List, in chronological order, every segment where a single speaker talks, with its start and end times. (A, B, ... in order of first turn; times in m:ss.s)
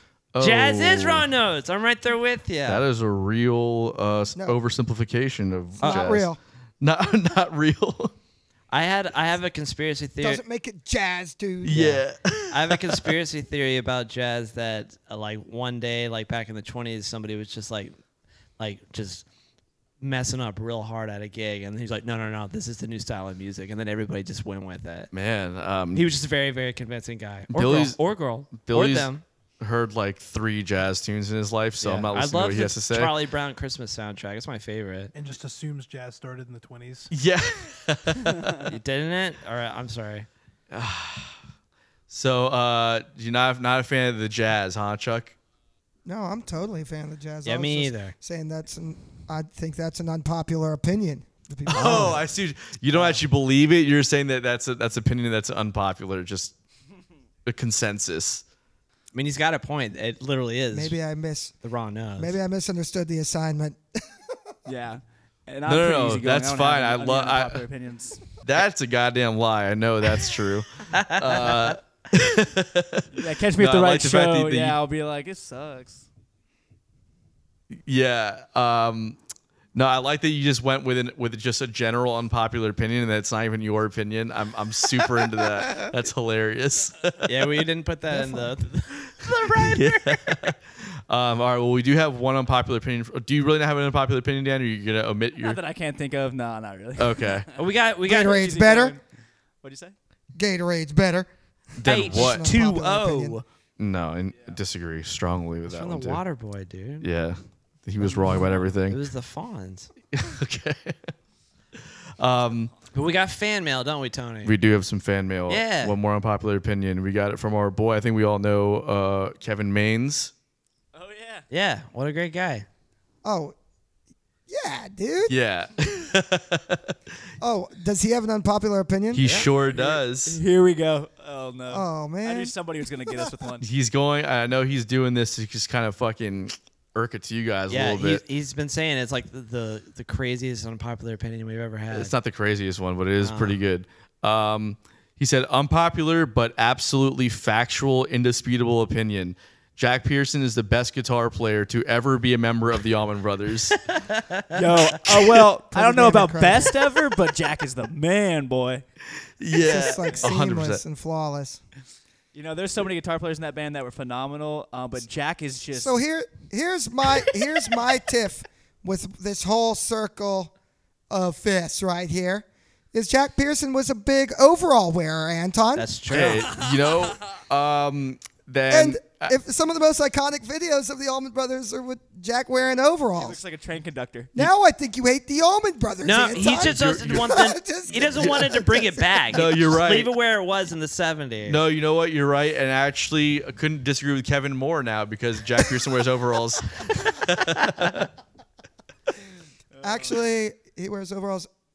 0:00.3-0:01.2 A
0:00.4-0:02.8 B
0:02.6-0:06.3 A
0:05.8-0:06.4 C
0:06.8-0:08.1 A
0:08.7-0:10.4 B
0:10.2-0:12.0 C
0:11.6-0:13.1 A
0:12.5-0:17.9 B
0:18.6-0:19.2 B
0:20.0-0:25.1 B
0:25.1-0:26.0 A
0:25.9-0:29.2 B
0:27.5-0:28.0 A
0:28.5-0:29.1 A
0:29.6-0:33.1 A
0:31.8-0:35.1 B
0:35.1-0:37.1 D
0:37.1-0:38.7 A
0:38.6-0:40.3 B
0:40.7-0:41.4 A
0:42.1-0:45.3 A
0:46.0-0:52.2 C
0:47.4-0:48.1 B
0:51.7-0:56.5 A
0:51.7-0:52.1 B
0:52.9-0:53.2 B
0:57.4-0:58.4 A
0:59.1-1:01.0 B
1:00.7-1:01.5 C
1:01.6-1:02.4 B
1:02.2-1:04.5 C
1:04.6-1:08.2 E
1:05.6-1:07.6 A
1:08.4-1:14.8 A
1:10.9-1:11.8 B
1:13.1-1:16.0 E
1:17.8-1:19.2 A
1:19.7-1:27.3 A
1:27.2-1:30.5 B
1:28.1-1:28.5 C
1:29.6-1:35.6 A
1:35.4-1:37.5 E
1:37.0-1:37.5 A
1:37.5-1:38.4 B
1:38.0-1:39.0 C
1:38.0-1:39.0 E
1:39.6-1:39.9 E
1:40.3-1:41.3 C
1:41.8-1:42.5 A
1:41.8-1:43.4 C
1:41.8-1:43.4 B
1:43.8-1:46.2 A
1:45.6-1:47.1 B
1:47.0-1:49.0 A
1:48.1-1:49.9 B
1:48.2-1:48.7 E
1:50.1-1:51.1 A
1:52.2-1:52.7 A
1:52.9-1:54.5 B
1:54.4-2:00.3 A
1:55.5-1:55.9 B
2:00.9-2:01.4 E
2:01.5-2:02.6 B
2:03.2-2:03.5 C
2:04.5-2:05.3 C
2:05.3-2:06.9 A
2:07.4-2:09.2 C
2:09.1-2:10.4 A
2:09.2-2:09.5 B
2:09.6-2:13.7 E
2:11.7-2:12.5 C
2:13.1-2:13.3 C
2:13.6-2:18.2 A
2:17.7-2:22.1 B
2:21.9-2:33.8 A
2:23.2-2:23.6 B
2:33.9-2:35.1 B
2:34.5-2:38.8 E
2:35.7-2:36.8 C
2:39.4-2:40.8 A
2:39.5-2:41.6 C
2:40.0-2:40.3 E
2:42.3-2:46.0 E
2:45.7-2:50.5 C
2:51.1-2:55.9 C
2:55.7-2:56.6 B
2:56.1-2:59.3 A
2:58.7-3:03.4 C
3:03.1-3:04.4 E
3:04.3-3:09.5 C
3:06.0-3:11.6 B
3:06.4-3:07.4 A
3:08.1-3:08.4 A
3:09.3-3:10.1 A
3:11.5-3:18.1 A
3:19.7-3:20.2 E
3:19.8-3:21.5 C